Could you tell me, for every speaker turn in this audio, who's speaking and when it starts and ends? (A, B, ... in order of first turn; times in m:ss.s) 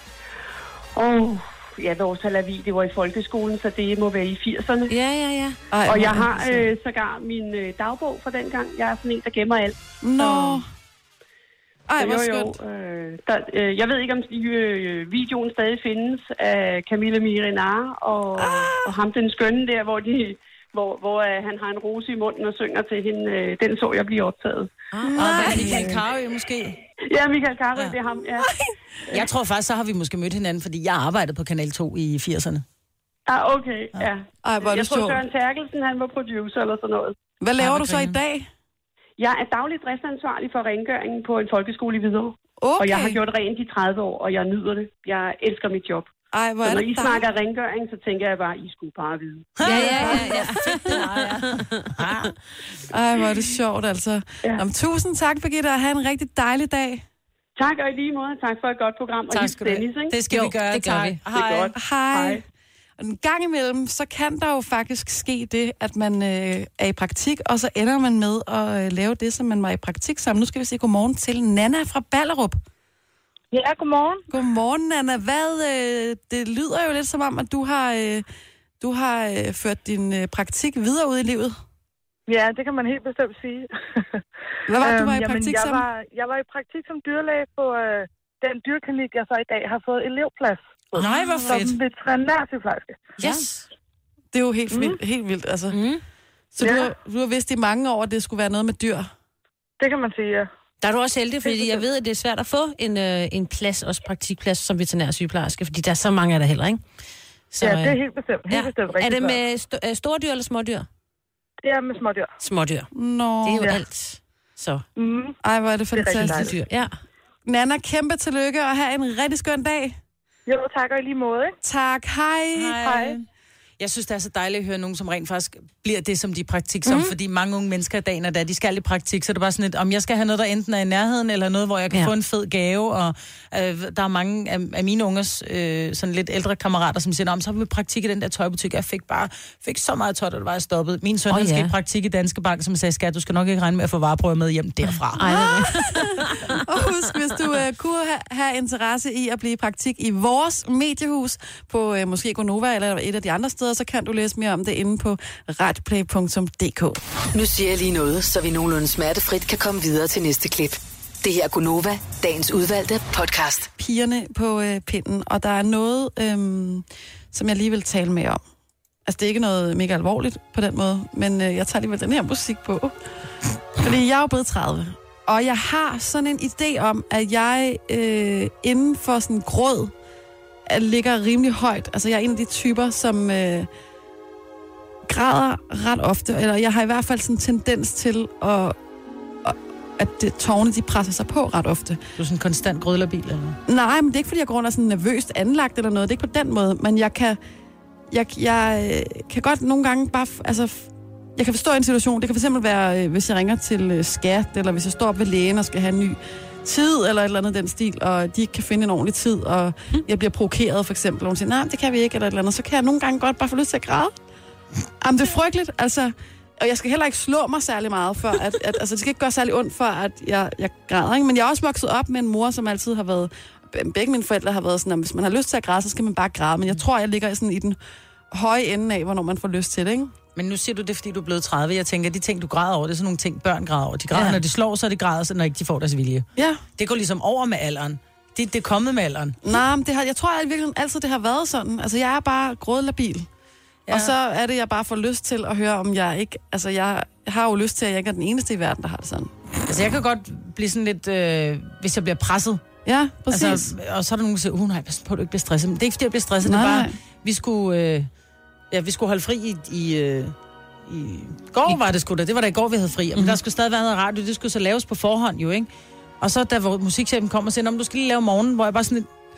0:01.0-0:04.9 A
0:04.9-0:05.6 B
0:05.7-0:06.7 C
0:05.9-0:10.6 A
0:10.0-0:10.6 C
0:11.9-0:12.6 C
0:12.0-0:24.8 A
0:18.6-0:18.8 C
0:24.9-0:25.8 B
0:25.1-0:25.8 C
0:25.2-0:26.8 D
0:25.5-0:26.0 A
0:27.1-0:28.5 A
0:29.1-0:32.6 D
0:33.3-0:37.2 A
0:34.4-0:35.2 C
0:37.4-0:38.5 C
0:37.6-0:38.2 D
0:39.2-0:46.1 A
0:42.6-0:43.2 C
0:46.3-0:47.2 C
0:46.6-0:49.6 A
0:49.6-0:52.4 D
0:49.6-0:52.0 B
0:49.7-0:51.0 C
0:52.9-0:57.0 C
0:57.6-1:00.2 A
0:59.3-1:01.8 D
1:00.3-1:01.2 B
1:01.3-1:02.4 A
1:01.8-1:02.4 C
1:03.0-1:12.6 C
1:13.5-1:14.2 E
1:14.3-1:18.2 C
1:18.8-1:21.6 C
1:22.3-1:24.2 E
1:24.7-1:25.9 C
1:24.8-1:33.1 E
1:31.0-1:31.8 D
1:33.2-1:33.7 B
1:34.3-1:35.8 C
1:34.7-1:35.0 E
1:35.7-1:36.0 B
1:36.6-1:39.1 C
1:36.6-1:36.9 E
1:39.8-1:40.5 E
1:40.8-1:46.8 B
1:41.4-1:41.8 E
1:47.5-1:48.0 B
1:47.6-1:49.4 E
1:48.5-1:50.9 B
1:51.6-1:52.3 E
1:52.4-1:52.9 B
1:52.9-1:53.7 C
1:53.4-1:54.8 B
1:55.0-1:55.4 E
1:55.4-1:56.6 C
1:55.9-1:56.6 E
1:56.2-1:56.9 B
1:57.5-2:00.0 C
2:00.5-2:01.6 E
2:01.6-2:02.9 C
2:02.6-2:03.3 D
2:02.8-2:03.2 E
2:03.8-2:25.3 D
2:06.9-2:07.1 B
2:21.3-2:21.7 B
2:25.2-2:26.6 B
2:25.2-2:37.0 C
2:37.3-2:43.7 F
2:43.8-2:48.4 C
2:49.1-2:52.9 C
2:53.8-2:59.9 C
3:00.7-3:03.7 C
3:05.1-3:08.8 C
3:09.4-3:12.0 C
3:12.2-3:13.6 D
3:13.7-3:17.4 C
3:18.1-3:34.1 C
3:35.0-3:47.8 C
3:48.3-3:50.1 C
3:50.4-3:59.6 D
3:56.4-3:56.6 C
3:59.4-4:03.3 C
4:03.9-4:04.1 D
4:03.9-4:09.3 C
4:09.7-4:12.6 D
4:12.8-4:13.7 C
4:13.3-4:18.1 D
4:16.4-4:16.9 C
4:18.7-4:25.7 D
4:26.2-4:29.1 D